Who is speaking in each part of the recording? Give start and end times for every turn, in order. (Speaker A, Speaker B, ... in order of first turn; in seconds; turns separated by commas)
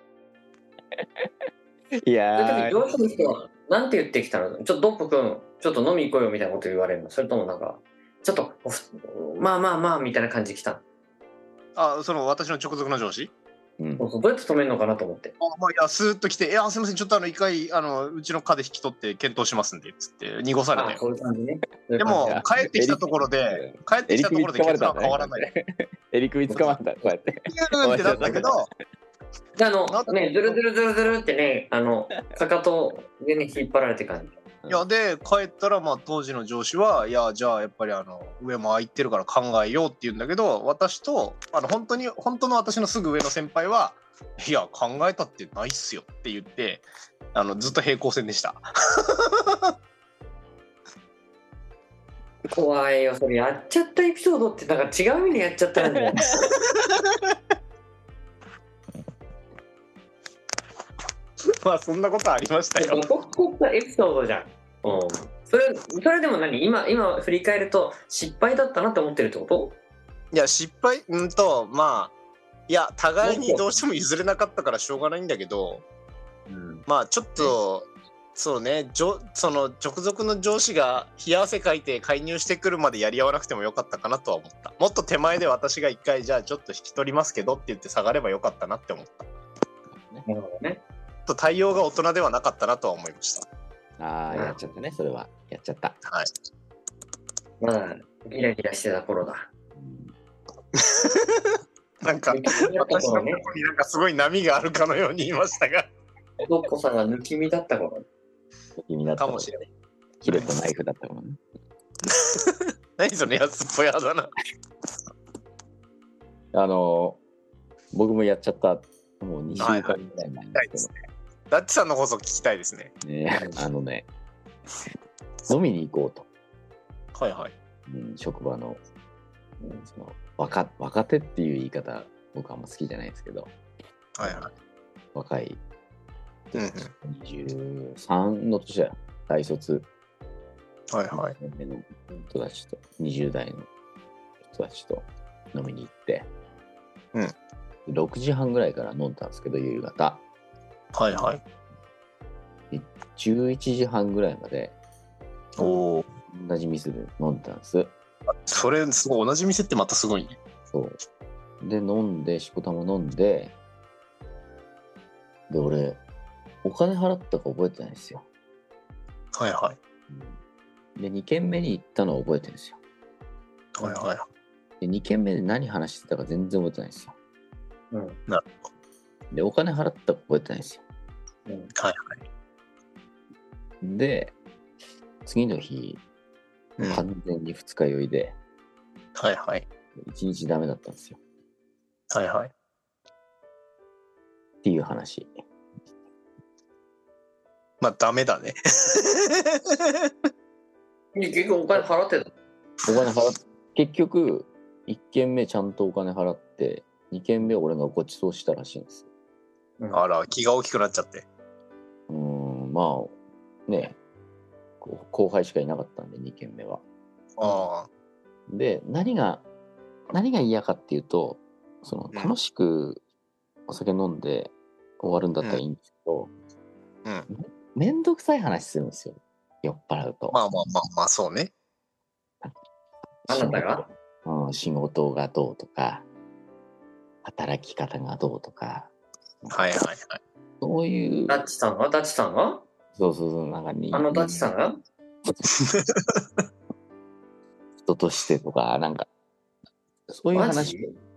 Speaker A: 1.0-1.3, Speaker A: 2.0-2.9, Speaker B: 2.4-10.8, Speaker C: 11.8-13.3, Speaker A: 13.8-14.1, Speaker B: 14.0-15.3, Speaker C: 15.4-21.0, Speaker B: 20.7-22.4, Speaker C: 22.0-25.5, Speaker A: 22.1-28.7, Speaker C: 27.5-28.7, Speaker B: 29.6-34.4, Speaker C: 29.9-30.5, Speaker C: 34.7-49.5, Speaker B: 52.5-56.3, Speaker C: 61.6-63.0, Speaker B: 62.8-69.8, Speaker C: 70.3-72.1, Speaker C: 72.7-75.8, Speaker B: 73.2-73.6, Speaker B: 76.5-76.8, Speaker C: 76.8-89.3, Speaker A: 89.9-90.2, Speaker B: 90.2-90.8, Speaker C: 91.2-93.5, Speaker A: 94.0-96.0, Speaker B: 94.3-94.6, Speaker B: 97.6-99.5, Speaker A: 99.8-100.1, Speaker C: 100.8-101.2, Speaker C: 102.0-105.9, Speaker B: 102.3-103.4, Speaker B: 106.4-108.0, Speaker A: 108.8-109.6, Speaker C: 109.2-109.7, Speaker A: 110.2-111.4, Speaker C: 110.2-110.5, Speaker C: 112.1-114.3, Speaker A: 116.5-117.2, Speaker A: 117.9-120.9, Speaker C: 119.6-120.0, Speaker C: 120.5-120.9, Speaker C: 121.5-122.9, Speaker A: 123.0-124.1, Speaker B: 123.4-123.6, Speaker A: 125.5-126.3, Speaker C: 127.1-127.5, Speaker A: 127.9-128.8, Speaker B: 129.6-129.9, Speaker A: 129.9-133.5, Speaker C: 134.2-134.5, Speaker A: 134.2-134.5, Speaker A: 135.1-135.6, Speaker A: 136.5-139.9, Speaker C: 136.5-136.9, Speaker C: 140.9-141.3, Speaker A: 141.1-143.7, Speaker A: 144.4-146.3, Speaker A: 147.8-150.2, Speaker C: 150.9-151.4, Speaker A: 152.7-154.7, Speaker C: 155.6-156.1, Speaker A: 156.3-157.9, Speaker C: 158.5-160.4, Speaker A: 160.7-161.0, Speaker A: 161.6-163.5, Speaker A: 165.5-166.0, Speaker A: 166.6-168.3, Speaker C: 169.3-169.8, Speaker A: 170.1-170.4, Speaker A: 170.9-172.8, Speaker C: 173.7-174.2, Speaker A: 174.8-177.2, Speaker B: 177.9-178.2, Speaker C: 178.3-178.6, Speaker A: 179.3-180.8, Speaker B: 181.4-181.7, Speaker C: 181.8-182.2, Speaker A: 183.8-184.3, Speaker A: 185.2-186.0, Speaker C: 186.8-187.0, Speaker A: 186.8-188.4, Speaker C: 189.2-189.6, Speaker A: 190.0-191.2, Speaker C: 192.1-192.5, Speaker A: 194.6-195.3, Speaker C: 197.8-199.4, Speaker B: 201.1-202.3, Speaker A: 202.8-209.1, Speaker C: 209.9-211.2, Speaker A: 212.1-214.0, Speaker A: 214.8-216.8, Speaker C: 217.4-217.9, Speaker A: 218.5-219.4, Speaker A: 220.1-223.0, Speaker A: 223.7-226.3, Speaker A: 227.3-230.4, Speaker C: 230.3-231.5, Speaker A: 233.2-236.1, Speaker B: 233.3-233.8, Speaker A: 237.2-239.8, Speaker C: 239.5-240.2, Speaker A: 240.6-241.5, Speaker B: 241.3-242.6, Speaker A: 242.9-244.5, Speaker B: 243.9-244.8, Speaker C: 245.7-246.0, Speaker A: 247.8-249.1, Speaker A: 250.1-250.8, Speaker B: 250.3-251.0